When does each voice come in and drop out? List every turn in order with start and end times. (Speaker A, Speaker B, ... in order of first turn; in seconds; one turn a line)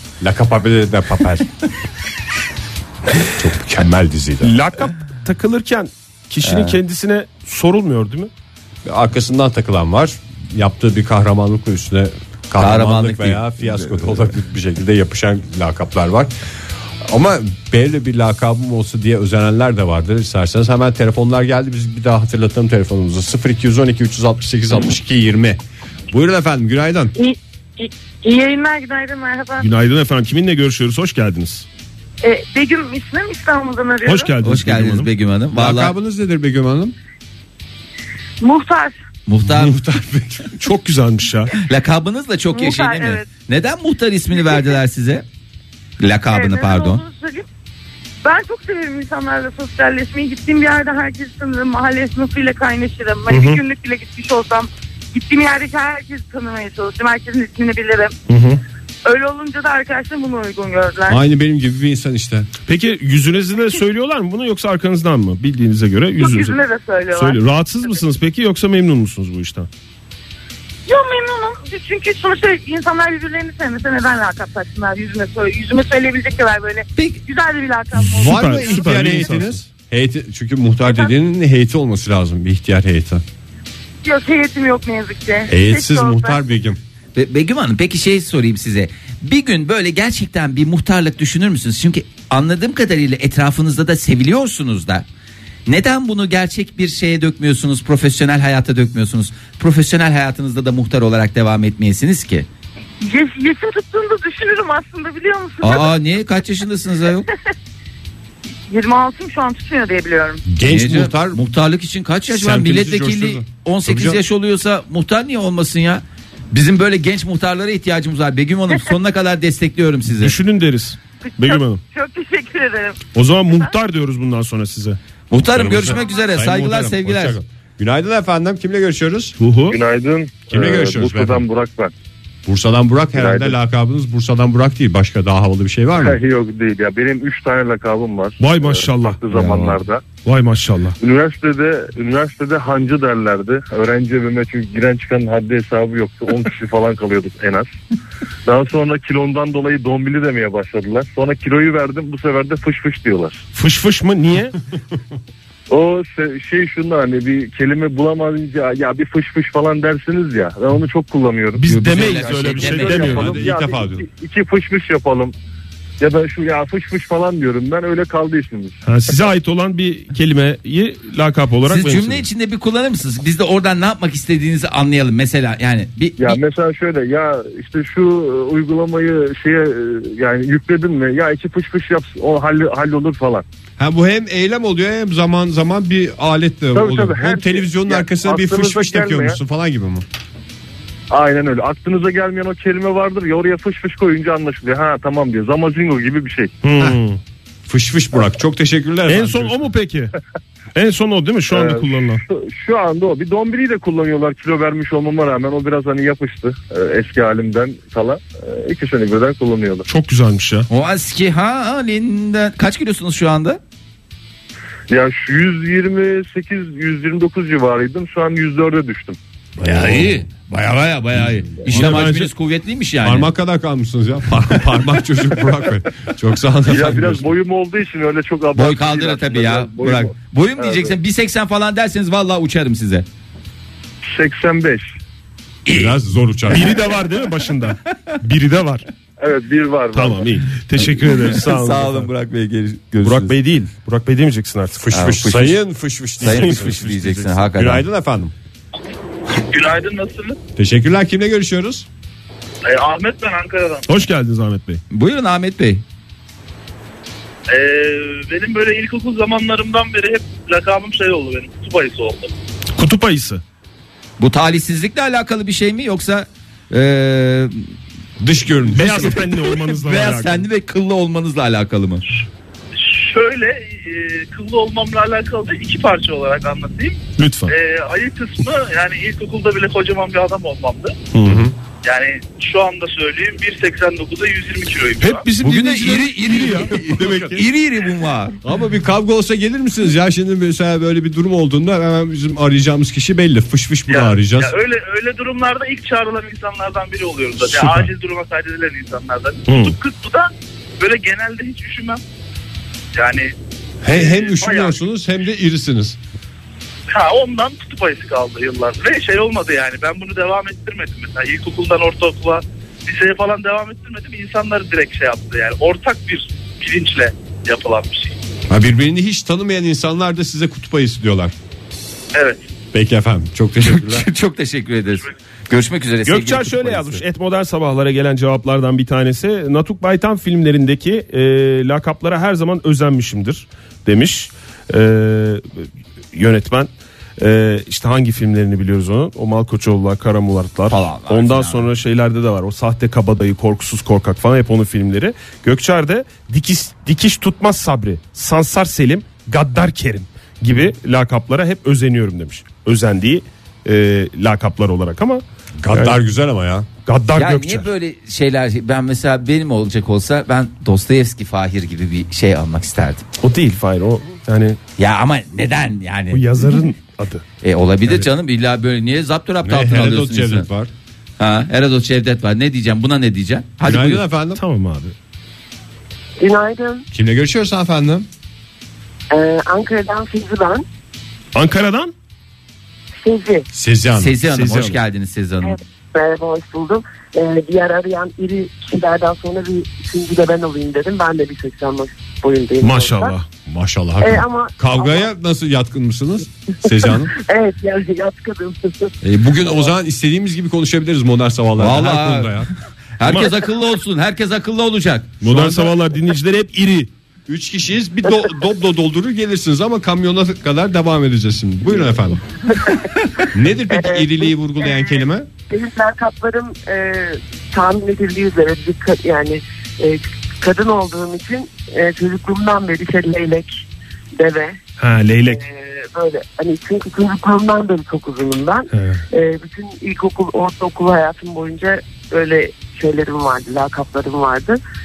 Speaker A: 0.2-1.4
Speaker A: 3.2-4.5
Speaker B: 4.4-8.3
Speaker C: 6.4-6.8
Speaker A: 8.8-16.3
Speaker C: 12.6-14.3
Speaker A: 17.0-27.1
Speaker D: 27.1-29.7
Speaker B: 29.6-31.6
Speaker D: 32.2-34.3
Speaker B: 34.0-35.1
Speaker C: 34.4-35.9
Speaker A: 35.5-36.9
Speaker D: 38.4-38.9
Speaker C: 39.2-39.8
Speaker A: 39.5-40.6
Speaker B: 40.6-41.5
Speaker C: 41.6-45.2
Speaker D: 42.5-43.3
Speaker C: 46.0-47.0
Speaker D: 46.3-47.5
Speaker D: 48.2-58.1
Speaker B: 53.3-53.6
Speaker B: 58.3-58.6
Speaker D: 59.0-61.2
Speaker A: 61.1-62.5
Speaker B: 62.7-69.7
Speaker D: 66.2-67.4
Speaker D: 70.9-79.3
Speaker C: 76.9-77.2
Speaker B: 77.9-79.6
Speaker A: 77.9-83.2
Speaker D: 80.8-81.1
Speaker D: 84.0-86.4
Speaker A: 85.5-86.8
Speaker C: 87.1-95.0
Speaker C: 95.7-102.5
Speaker D: 103.0-106.0
Speaker C: 105.6-107.3
Speaker D: 108.7-110.4
Speaker A: 110.5-111.4
Speaker C: 110.7-120.3
Speaker A: 112.3-114.2
Speaker B: 120.1-121.8
Speaker D: 121.2-123.7
Speaker B: 123.1-125.0
Speaker C: 125.3-127.4
Speaker A: 125.5-129.3
Speaker D: 125.8-126.2
Speaker B: 129.4-129.8
Speaker E: 129.7-131.9
Speaker A: 130.5-131.4
Speaker A: 132.4-136.2
Speaker E: 133.2-133.5
Speaker E: 136.0-140.0
Speaker B: 138.4-139.2
Speaker C: 139.3-139.8
Speaker B: 140.2-141.0
Speaker E: 141.0-147.7
Speaker E: 148.4-153.4
Speaker B: 153.5-154.6
Speaker E: 155.7-165.3
Speaker B: 161.6-163.4
Speaker C: 161.6-163.3
Speaker A: 162.9-164.0
Speaker E: 166.0-168.8
Speaker B: 168.8-172.2
Speaker C: 171.7-176.4
Speaker E: 176.2-183.4
Speaker A: 183.8-190.0
Speaker E: 186.7-189.4
Speaker E: 191.1-196.5
Speaker B: 196.6-197.2
Speaker A: 197.7-199.6
Speaker B: 199.1-200.1
Speaker B: 200.7-202.2
Speaker E: 201.5-209.8
Speaker B: 209.9-210.7
Speaker C: 210.7-213.6
Speaker E: 214.9-219.2
Speaker A: 219.6-220.2
Speaker C: 219.6-223.3
Speaker A: 221.6-222.2
Speaker B: 221.7-222.3
Speaker A: 223.0-227.3
Speaker E: 226.7-230.9
Speaker C: 228.5-233.1
Speaker E: 234.1-234.9
Speaker C: 235.7-235.9
Speaker A: 235.7-236.8
Speaker B: 236.5-238.8
Speaker E: 239.2-240.2
Speaker B: 239.9-242.1
Speaker C: 240.8-243.3
Speaker B: 243.0-244.8
Speaker A: 244.8-246.9
Speaker C: 244.9-245.6
Speaker C: 246.2-247.8
Speaker B: 246.2-247.4
Speaker A: 247.5-248.3
Speaker F: 249.4-250.4
Speaker A: 250.6-251.9
Speaker F: 252.6-253.9
Speaker B: 253.9-254.8
Speaker C: 254.9-255.8
Speaker F: 257.5-262.3
Speaker B: 262.7-263.4
Speaker C: 264.2-267.7
Speaker A: 268.2-269.3
Speaker B: 268.7-270.4
Speaker C: 268.8-272.0
Speaker F: 272.7-281.0
Speaker B: 277.2-277.5
Speaker B: 281.1-281.4
Speaker A: 281.2-281.5
Speaker F: 281.8-285.3
Speaker B: 285.0-286.7
Speaker C: 285.4-288.4
Speaker A: 286.6-287.4
Speaker A: 288.4-294.5
Speaker F: 293.9-302.0
Speaker B: 297.5-297.9
Speaker B: 299.5-299.7
Speaker F: 302.9-303.3
Speaker A: 303.8-306.0
Speaker F: 303.9-304.8
Speaker F: 306.9-318.2
Speaker A: 318.5-321.3
Speaker F: 322.1-322.4
Speaker A: 322.7-324.1
Speaker C: 323.6-327.0
Speaker B: 326.1-356.0
Speaker C: 340.7-341.7
Speaker A: 355.6-356.7
Speaker B: 356.9-357.7
Speaker C: 357.1-363.0
Speaker B: 363.2-364.6
Speaker C: 364.8-366.5
Speaker B: 366.1-367.2
Speaker C: 367.4-370.5
Speaker A: 369.4-370.7
Speaker C: 371.2-374.1
Speaker A: 373.6-374.4
Speaker B: 374.3-374.9
Speaker G: 376.2-376.9
Speaker A: 376.9-378.1
Speaker G: 379.1-380.6
Speaker B: 381.3-381.9
Speaker G: 383.0-383.4
Speaker A: 383.5-384.2
Speaker C: 384.0-385.6
Speaker B: 384.3-384.8
Speaker G: 385.4-393.2
Speaker B: 392.6-393.2
Speaker A: 393.4-397.1
Speaker G: 394.0-395.1
Speaker G: 396.6-399.0
Speaker A: 399.0-402.5
Speaker C: 401.6-402.4
Speaker C: 403.0-405.1
Speaker B: 403.0-403.3
Speaker A: 405.2-405.8
Speaker B: 405.2-406.9
Speaker A: 407.3-412.2
Speaker G: 412.5-423.6
Speaker A: 413.3-415.3
Speaker G: 424.1-424.6
Speaker B: 424.8-425.4
Speaker G: 425.2-434.6
Speaker B: 428.7-429.0